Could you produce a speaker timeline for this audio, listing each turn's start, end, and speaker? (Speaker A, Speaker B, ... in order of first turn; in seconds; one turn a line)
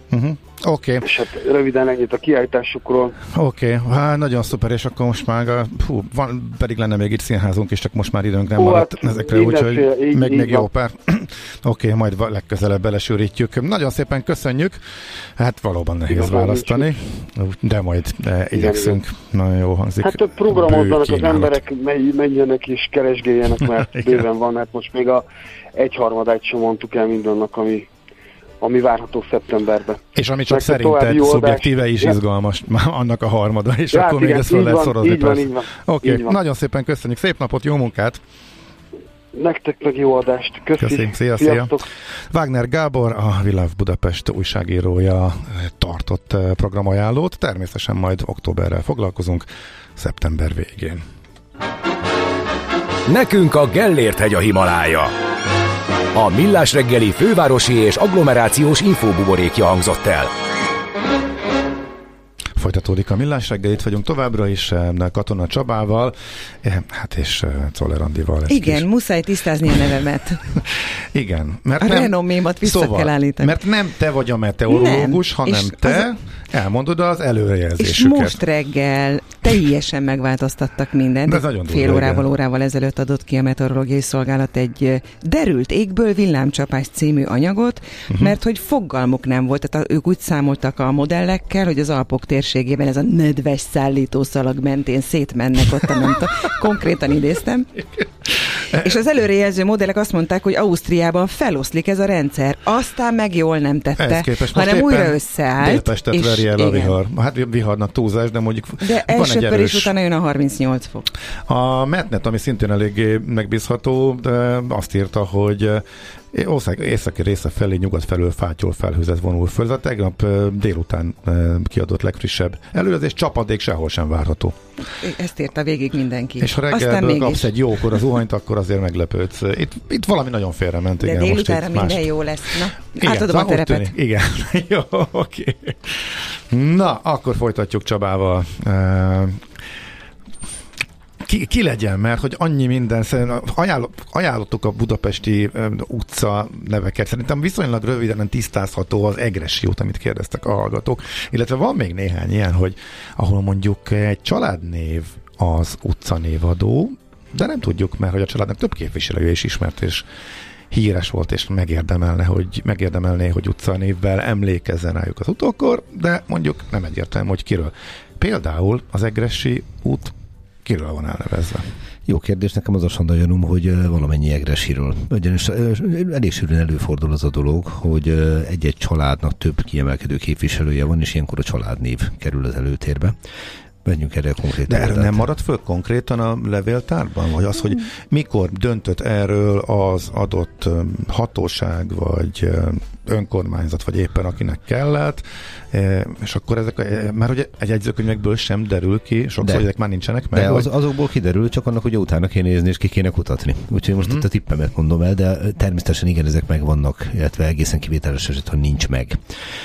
Speaker A: 0.1-1.0
Speaker B: 1.0-3.2
Speaker A: 3.3-21.6
Speaker B: 8.6-10.7
Speaker B: 16.1-16.9
Speaker B: 18.5-19.0
Speaker B: 20.0-27.9
Speaker A: 23.6-24.2
Speaker B: 28.6-32.1
Speaker A: 30.1-38.2
Speaker B: 33.9-36.4
Speaker B: 39.3-41.8
Speaker A: 40.8-51.0
Speaker C: 53.1-55.1
Speaker C: 56.1-60.3
Speaker A: 62.5-68.8
Speaker D: 68.5-70.4
Speaker A: 71.1-78.4
Speaker D: 71.8-73.6
Speaker D: 74.7-76.1
Speaker D: 77.8-97.7
Speaker A: 81.2-82.3
Speaker D: 98.7-107.0
Speaker A: 104.0-109.9
Speaker D: 108.8-111.1
Speaker A: 111.5-124.6
Speaker D: 125.0-128.0
Speaker A: 126.4-132.1
Speaker D: 131.0-133.9
Speaker A: 132.9-139.4
Speaker A: 141.2-160.1
Speaker A: 160.7-171.7
Speaker E: 172.1-183.2
Speaker E: 183.8-185.2
Speaker A: 184.7-200.7
Speaker E: 199.4-199.7
Speaker E: 200.3-209.2
Speaker A: 204.0-204.2